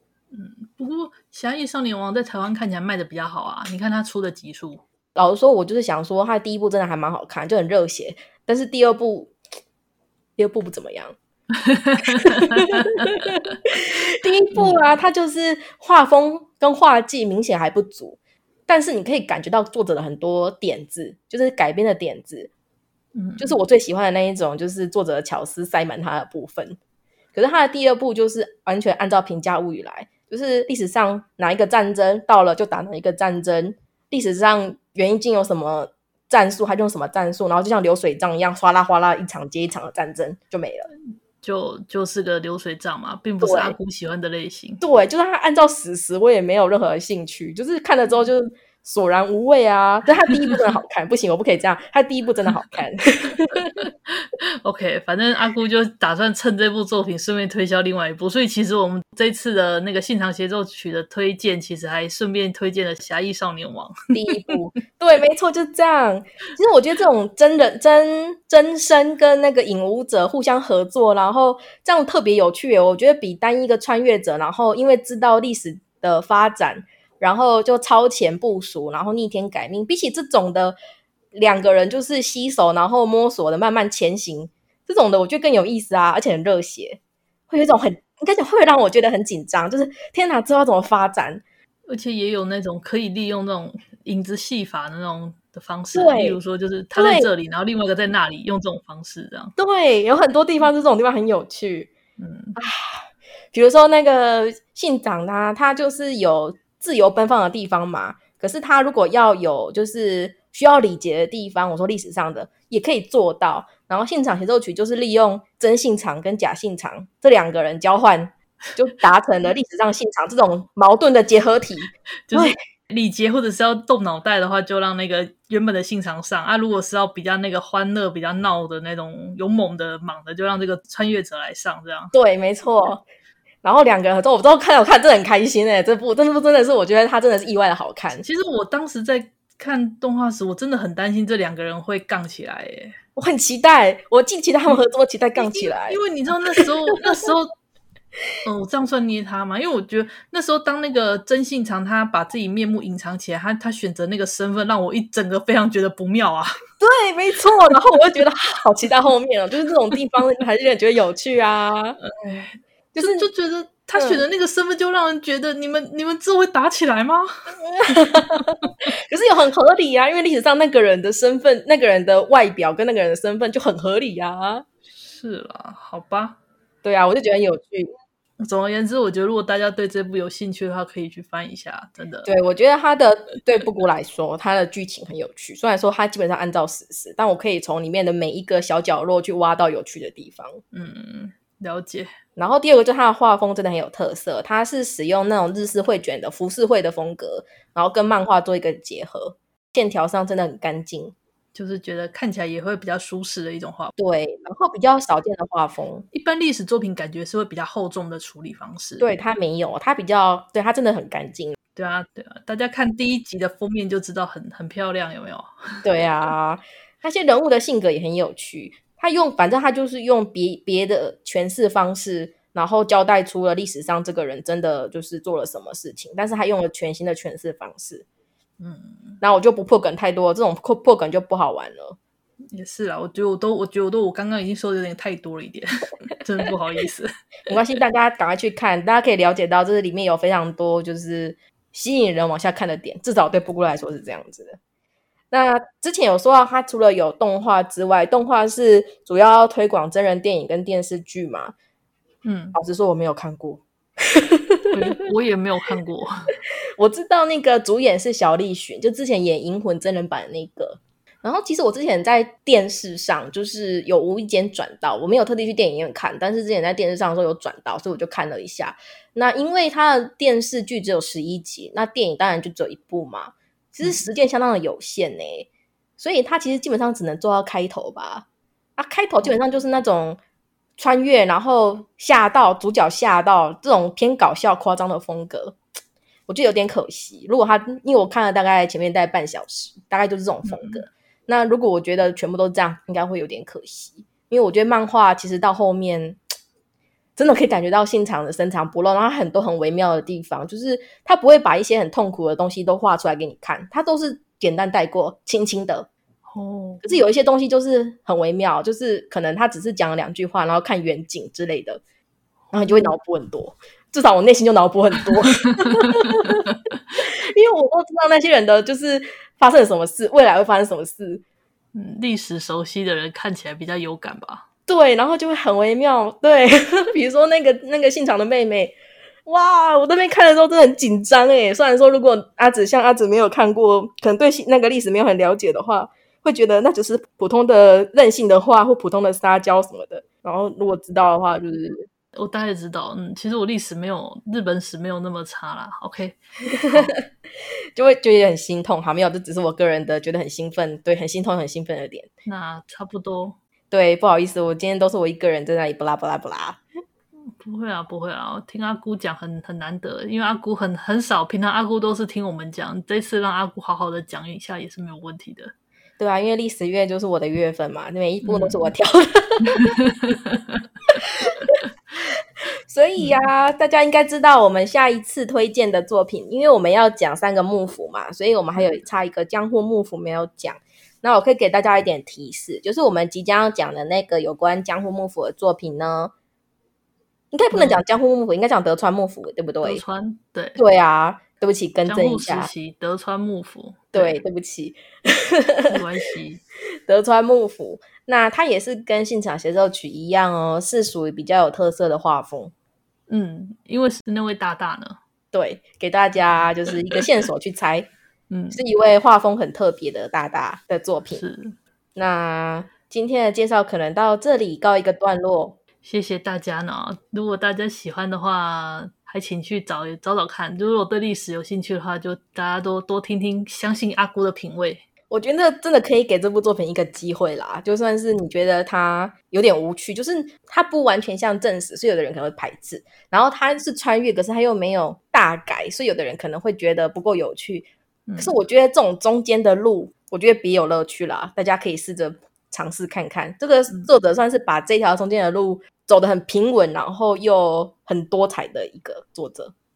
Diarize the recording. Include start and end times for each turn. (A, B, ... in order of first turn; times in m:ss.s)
0:00.3-0:04.8 A
0:05.2-0:09.3 B
0:10.4-0:11.2 B
0:11.6-0:13.2 A
0:12.0-0:22.5 B
0:14.5-0:14.8 A
0:23.2-0:23.6 A
0:23.4-0:26.8 B
0:27.3-0:40.9 B
0:41.4-0:44.8 A
0:43.4-0:43.8 B
0:44.8-0:53.9 B
0:54.1-1:04.6 A
1:04.1-1:20.8 B
1:21.3-1:27.0 B
1:27.5-1:31.4 B
1:31.9-1:39.5 A
1:35.9-1:36.4 B
1:37.0-1:37.3 B
1:39.6-1:41.9 B
1:42.2-1:42.6 A
1:42.6-2:02.6 B
2:02.3-2:12.1 A
2:12.1-2:13.0 B
2:13.6-2:18.2 B
2:18.2-2:23.0 A
2:23.2-2:26.0 B
2:25.4-2:27.5 A
2:28.4-2:36.6 A
2:36.8-2:42.0 B
2:42.0-2:47.6 A
2:42.9-2:43.3 B
2:44.0-2:44.2 B
2:47.6-2:54.7 B
2:54.9-2:56.4 A
2:56.8-2:57.9 B
2:58.4-3:02.3 A
3:02.2-3:10.6 B
3:10.7-3:12.1 A
3:12.4-3:21.2 B
3:21.5-3:23.9 A
3:24.0-3:26.1 B
3:26.1-3:29.1 A
3:29.0-3:31.6 B
3:31.8-3:35.9 A
3:35.8-3:48.0 B
3:48.6-3:49.2 A
3:49.2-3:52.0 B
3:52.5-3:57.6 A
3:57.5-4:04.6 B
4:05.3-4:11.5 B
4:12.2-4:12.6 A
4:12.6-4:15.0 B
4:14.7-4:16.3 A
4:16.8-4:38.3 B
4:38.8-4:40.2 B
4:40.8-4:45.6 B
4:46.3-4:56.2 B
4:50.5-4:50.8 A
4:57.2-5:05.9 B
5:06.3-5:07.0 A
5:06.8-5:11.8 B
5:12.5-5:21.2 B
5:12.6-5:13.0 A
5:21.7-5:24.4 A
5:24.7-5:41.9 B
5:42.1-5:46.9 A
5:46.5-5:47.0 B
5:47.8-5:52.1 B
5:52.3-5:53.4 A
5:53.7-5:56.6 B
5:57.3-6:05.5 A
6:06.0-6:09.8 B
6:08.2-6:08.7 A
6:09.5-6:10.6 A
6:11.0-6:11.6 B
6:12.7-6:26.1 B
6:13.0-6:13.2 A
6:27.3-6:29.8 B
6:27.5-6:27.8 A
6:29.6-6:30.6 A
6:30.6-6:32.5 B
6:31.8-6:34.2 A
6:33.9-6:35.8 B
6:35.7-6:36.4 A
6:36.9-6:42.5 B
6:43.1-6:45.0 A
6:45.3-6:47.9 B
6:48.3-6:48.6 A
6:48.5-6:51.2 B
6:51.2-6:51.6 A
6:52.0-6:55.6 B
6:55.8-7:04.8 A
7:05.1-7:29.5 B
7:18.1-7:18.4 A